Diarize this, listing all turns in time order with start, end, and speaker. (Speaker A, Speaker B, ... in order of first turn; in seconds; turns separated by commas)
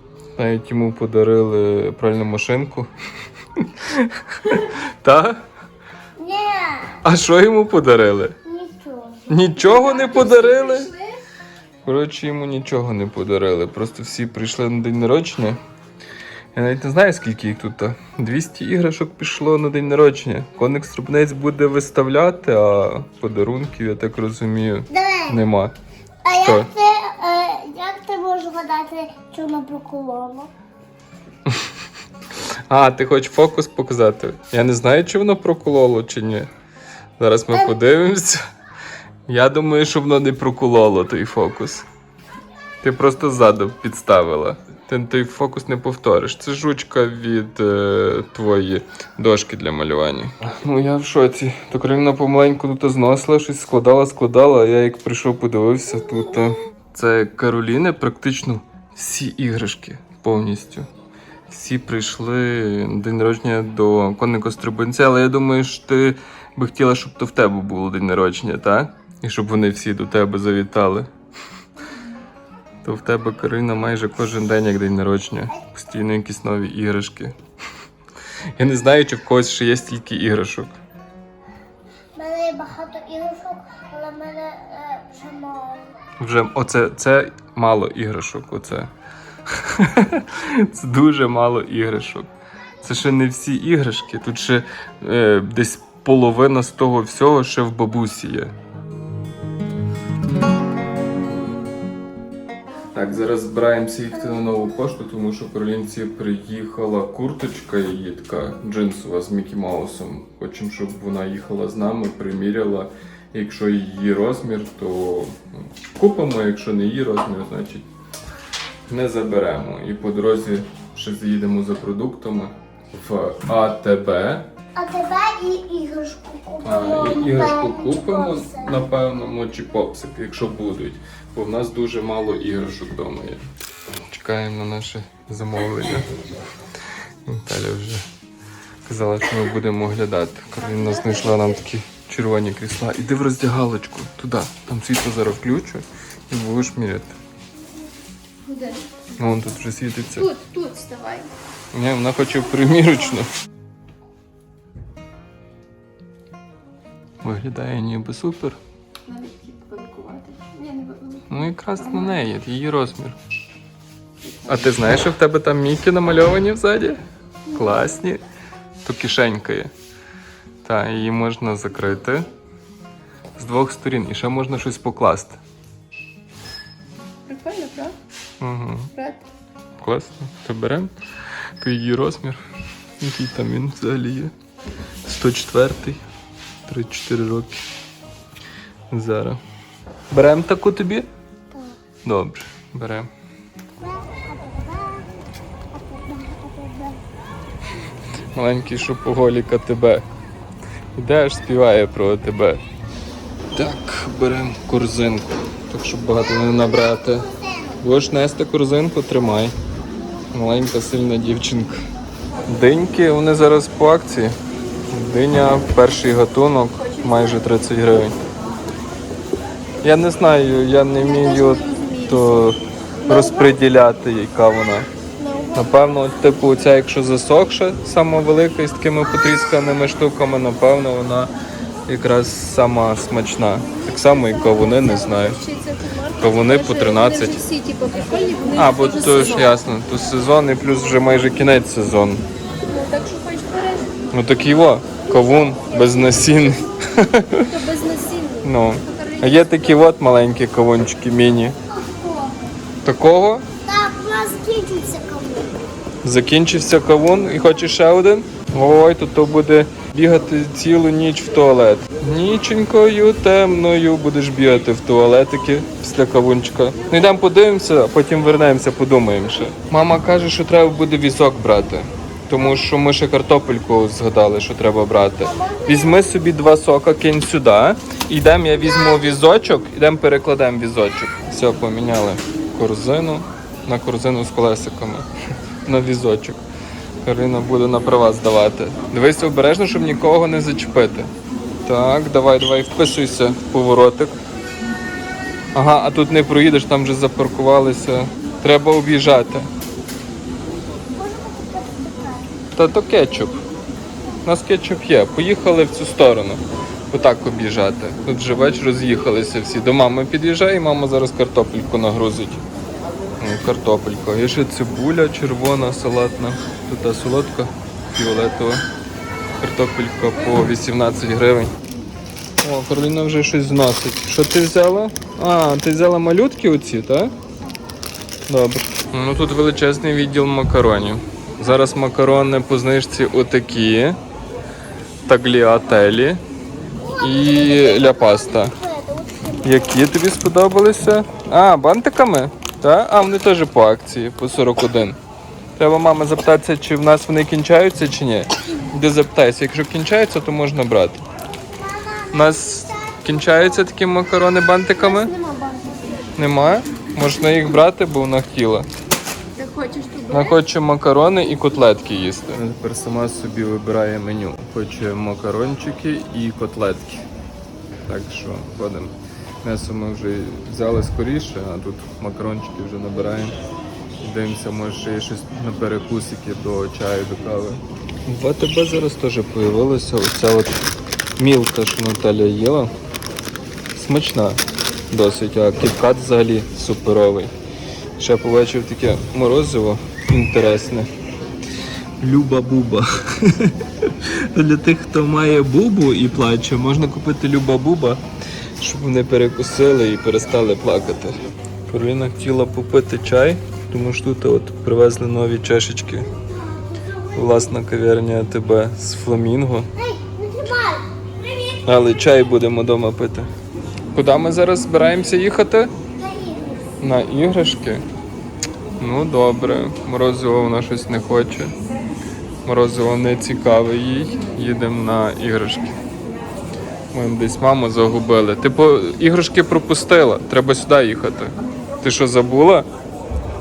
Speaker A: 0.4-2.9, Speaker A: 3.6-5.5, Speaker B: 6.2-7.0, Speaker A: 7.0-8.4, Speaker B: 8.4-9.3, Speaker A: 9.3-10.9, Speaker C: 9.6-11.2, Speaker A: 11.8-15.6, Speaker A: 16.6-25.8, Speaker B: 24.9-25.4, Speaker B: 26.2-30.5, Speaker A: 26.3-26.7, Speaker A: 32.7-36.5, Speaker A: 37.2-38.4, Speaker A: 39.3-41.9, Speaker A: 42.8-60.9, Speaker A: 61.5-71.1, Speaker A: 72.8-77.4, Speaker A: 78.6-80.8, Speaker B: 82.2-85.8, Speaker A: 86.2-88.9, Speaker A: 89.5-92.3, Speaker A: 92.8-98.5, Speaker A: 102.9-117.9, Speaker A: 118.9-124.5, Speaker B: 124.8-128.9, Speaker A: 126.6-133.4, Speaker A: 134.1-136.1, Speaker A: 137.3-138.0, Speaker A: 138.9-147.2, Speaker C: 140.6-141.7, Speaker C: 148.4-148.9, Speaker A: 149.2-150.3, Speaker C: 150.2-151.3, Speaker A: 151.7-153.3, Speaker A: 157.2-158.6, Speaker C: 159.1-162.2, Speaker A: 161.3-163.2, Speaker C: 164.2-164.7, Speaker A: 164.5-168.2, Speaker A: 168.8-169.7, Speaker A: 170.6-172.3, Speaker A: 173.4-175.4, Speaker C: 177.3-177.9, Speaker A: 178.4-178.9, Speaker C: 178.9-179.2, Speaker A: 179.8-180.9, Speaker A: 181.6-182.4, Speaker A: 183.0-184.3, Speaker A: 185.0-186.0, Speaker A: 186.7-187.6, Speaker A: 188.9-189.4, Speaker A: 190.1-191.1, Speaker B: 191.5-191.8, Speaker A: 192.1-193.1, Speaker B: 193.8-195.1, Speaker B: 195.7-197.0, Speaker A: 198.3-200.1, Speaker A: 201.0-202.6, Speaker A: 203.5-209.5, Speaker B: 206.1-207.8, Speaker A: 210.3-211.8, Speaker A: 212.5-214.4, Speaker A: 214.9-218.2, Speaker C: 216.8-217.4, Speaker A: 219.8-224.9, Speaker C: 220.9-222.5, Speaker C: 225.2-225.9, Speaker A: 225.5-231.3, Speaker A: 231.9-235.4, Speaker C: 233.6-239.6, Speaker A: 236.2-237.4, Speaker A: 238.6-242.2, Speaker C: 242.6-243.9, Speaker A: 244.1-247.5, Speaker B: 245.1-245.7, Speaker C: 245.7-246.6, Speaker C: 247.4-249.9, Speaker A: 248.4-251.6, Speaker B: 251.7-252.4, Speaker A: 252.8-253.5, Speaker B: 253.6-255.6, Speaker A: 256.0-285.1, Speaker B: 275.3-275.9, Speaker A: 285.7-286.4, Speaker A: 287.1-291.1, Speaker A: 291.6-294.2, Speaker A: 295.6-299.5, Speaker B: 301.0-302.3, Speaker A: 302.6-303.4, Speaker A: 304.2-312.4, Speaker A: 313.2-318.6, Speaker A: 319.4-321.5, Speaker A: 322.4-327.1, Speaker A: 328.3-334.0, Speaker A: 335.1-336.2, Speaker B: 336.8-339.9, Speaker A: 337.0-338.6, Speaker A: 339.4-345.0, Speaker A: 345.6-351.1, Speaker B: 351.5-353.7, Speaker A: 352.1-355.1, Speaker C: 354.8-356.1, Speaker A: 356.2-358.7, Speaker C: 359.4-360.4, Speaker A: 360.1-367.1, Speaker A: 367.9-373.4, Speaker A: 374.0-380.6, Speaker A: 381.2-382.7, Speaker A: 383.8-387.3, Speaker A: 388.0-390.9, Speaker A: 392.0-398.0, Speaker A: 398.6-401.2, Speaker A: 401.7-406.1, Speaker B: 406.1-407.5, Speaker A: 407.1-409.7, Speaker B: 409.8-412.2, Speaker A: 411.6-413.3, Speaker A: 413.9-415.7, Speaker B: 415.9-416.7, Speaker A: 416.8-417.8, Speaker A: 418.8-421.5, Speaker A: 422.4-425.8, Speaker A: 426.9-432.7